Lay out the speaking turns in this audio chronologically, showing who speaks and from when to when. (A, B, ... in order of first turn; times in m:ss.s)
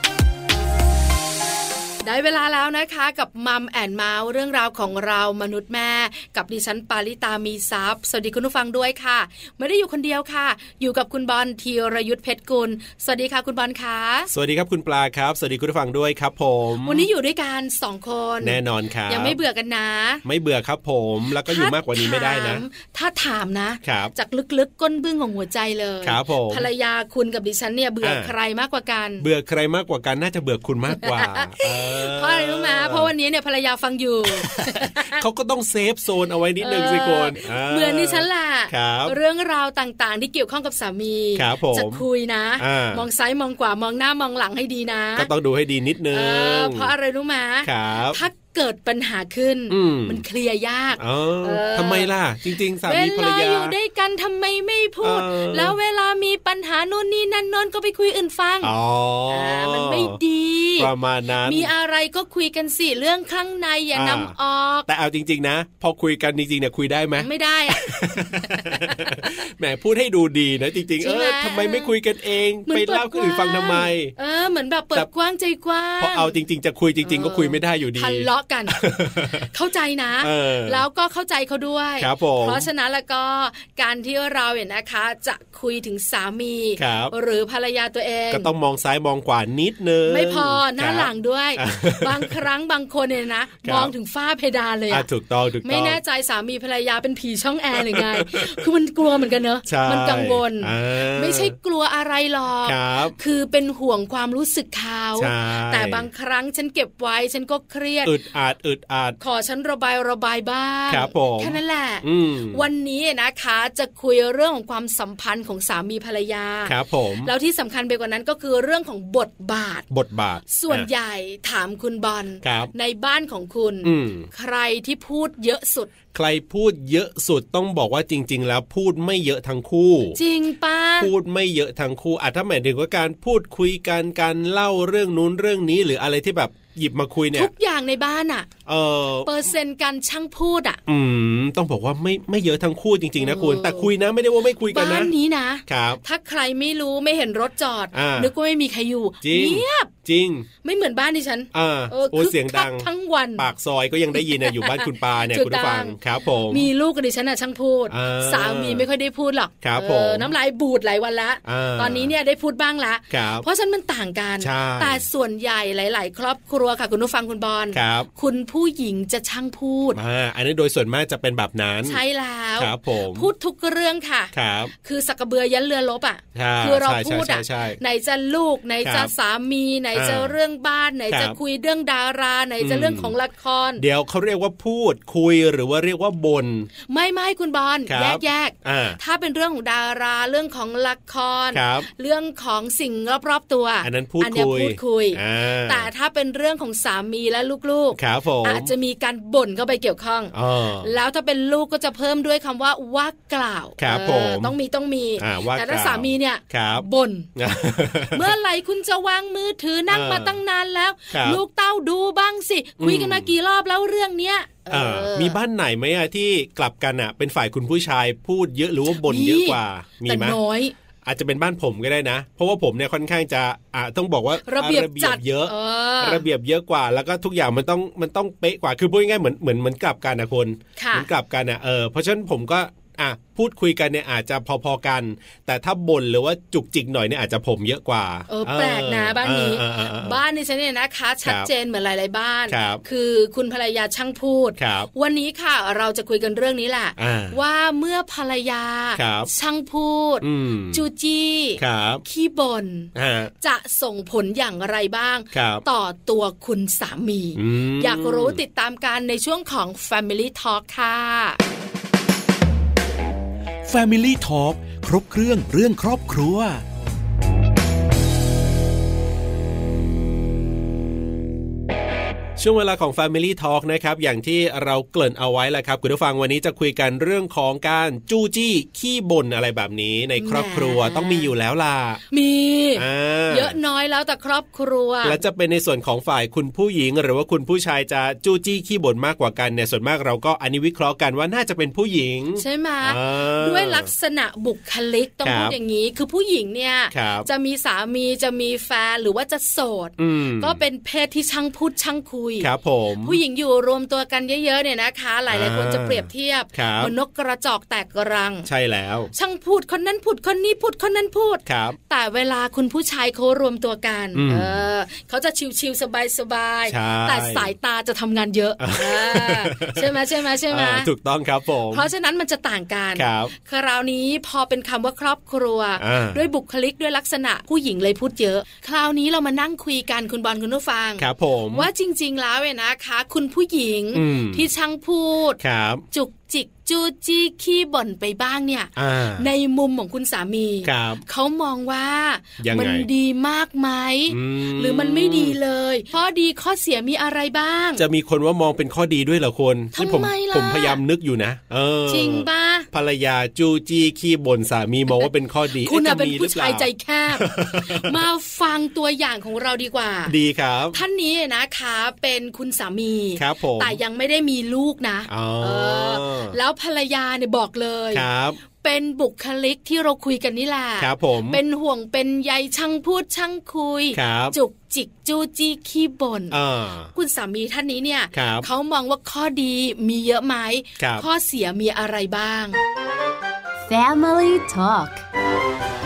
0:02.0-0:14.3 A
0:14.3-0:17.1 B
0:16.8-0:20.2 A
0:18.4-0:19.4 B
0:20.2-0:22.6 B
0:21.4-0:29.3 A
0:23.8-0:24.1 B
0:26.0-0:26.7 B
0:28.0-0:28.3 B
0:29.2-0:33.1 B
0:30.9-0:35.2 A
0:34.4-0:39.2 B
0:36.6-0:45.3 A
0:41.3-0:42.0 B
0:42.6-0:43.1 B
0:45.2-0:46.9 B
0:46.1-0:52.1 A
0:47.6-0:48.2 B
0:49.7-0:50.2 B
0:51.0-0:53.7 B
0:52.8-0:58.7 A
0:55.0-0:55.8 B
0:58.6-1:00.2 B
0:59.3-1:00.9 A
1:00.8-1:01.7 B
1:01.4-1:04.9 A
1:03.9-1:04.3 B
1:04.9-1:14.1 B
1:07.2-1:09.3 A
1:11.0-1:11.9 A
1:12.6-1:16.4 A
1:16.0-1:19.5 B
1:17.0-1:28.5 A
1:20.2-1:20.8 B
1:22.0-1:22.7 B
1:26.8-1:27.1 B
1:28.3-1:32.4 B
1:30.1-1:35.0 A
1:33.6-1:33.9 B
1:34.9-1:36.0 B
1:35.6-1:48.1 A
1:37.8-1:38.6 B
1:39.6-1:41.5 B
1:42.6-1:43.2 B
1:45.2-1:46.0 B
1:48.0-1:49.2 B
1:49.2-1:59.8 A
1:50.9-1:52.6 B
1:56.6-1:57.3 B
1:59.9-2:00.9 B
2:00.5-2:05.9 A
2:02.4-2:02.7 B
2:03.8-2:04.3 B
2:06.1-2:10.2 B
2:10.1-2:11.1 A
2:11.0-2:17.5 B
2:17.3-2:18.5 A
2:18.6-2:19.3 B
2:19.2-2:20.8 A
2:20.9-2:25.1 B
2:23.2-2:23.9 A
2:24.7-2:29.9 A
2:25.7-2:26.0 B
2:27.9-2:28.3 B
2:29.2-2:30.5 B
2:30.6-2:33.5 A
2:31.5-2:36.7 B
2:34.1-2:36.0 A
2:36.5-2:50.0 A
2:37.9-2:38.9 B
2:39.6-2:40.3 B
2:41.4-2:42.1 B
2:43.1-2:43.4 B
2:44.4-2:45.0 B
2:47.7-2:48.1 B
2:49.9-2:52.0 B
2:51.8-3:03.8 A
2:52.6-2:53.3 B
2:54.3-2:54.7 B
2:56.3-2:57.8 B
2:58.8-2:59.1 B
2:59.9-3:00.3 B
3:01.1-3:01.4 B
3:02.6-3:03.2 B
3:03.8-3:06.7 B
3:06.9-3:27.3 A
3:07.9-3:09.0 B
3:11.5-3:11.9 B
3:13.8-3:15.9 B
3:17.9-3:18.7 B
3:20.3-3:20.9 B
3:23.8-3:24.5 B
3:25.2-3:28.3 B
3:28.1-3:35.4 A
3:29.9-3:30.4 B
3:31.1-3:31.4 B
3:32.8-3:33.3 B
3:34.7-3:40.4 B
3:38.9-3:40.7 A
3:41.0-4:00.2 B
3:44.4-3:46.2 A
3:50.8-3:51.1 A
3:58.3-4:21.4 A
4:01.2-4:01.5 B
4:02.5-4:02.8 B
4:04.6-4:04.9 B
4:07.0-4:07.4 B
4:09.0-4:09.3 B
4:10.2-4:10.8 B
4:11.6-4:12.0 B
4:12.9-4:13.3 B
4:15.3-4:15.6 B
4:17.4-4:18.4 B
4:23.7-4:26.6 C
4:32.4-4:42.0 B
4:40.2-4:41.3 A
4:42.1-4:45.2 A
4:42.8-4:43.6 B
4:45.0-4:53.9 B
4:52.4-5:02.5 A
4:55.2-4:55.5 B
4:56.9-4:57.3 B
5:00.0-5:00.6 B
5:02.4-5:03.2 B
5:03.0-5:08.5 A
5:05.3-5:06.9 B
5:08.4-5:09.1 B
5:09.1-5:20.9 A
5:11.4-5:11.8 B
5:14.1-5:14.6 B
5:16.7-5:17.5 B
5:18.6-5:20.0 B
5:20.5-5:21.9 B
5:21.7-5:35.4 A
5:23.0-5:23.3 B
5:25.8-5:26.2 B
5:31.0-5:31.7 B
5:33.9-5:34.5 B
5:35.4-5:35.8 B
5:35.9-5:47.8 A
5:38.8-5:39.3 B
5:40.6-5:41.0 B
5:42.4-5:42.9 B
5:44.1-5:45.4 B
5:47.8-5:58.0 B
5:49.7-5:50.8 A
5:51.9-5:52.7 A
5:54.9-6:00.1 A
6:00.1-6:00.8 B
6:00.7-6:16.4 A
6:03.2-6:03.8 B
6:05.1-6:06.4 B
6:07.9-6:08.4 B
6:10.8-6:11.4 B
6:13.9-6:14.3 B
6:16.3-6:16.9 B
6:16.9-6:22.6 A
6:18.1-6:18.5 B
6:20.8-6:21.0 B
6:23.7-6:25.0 C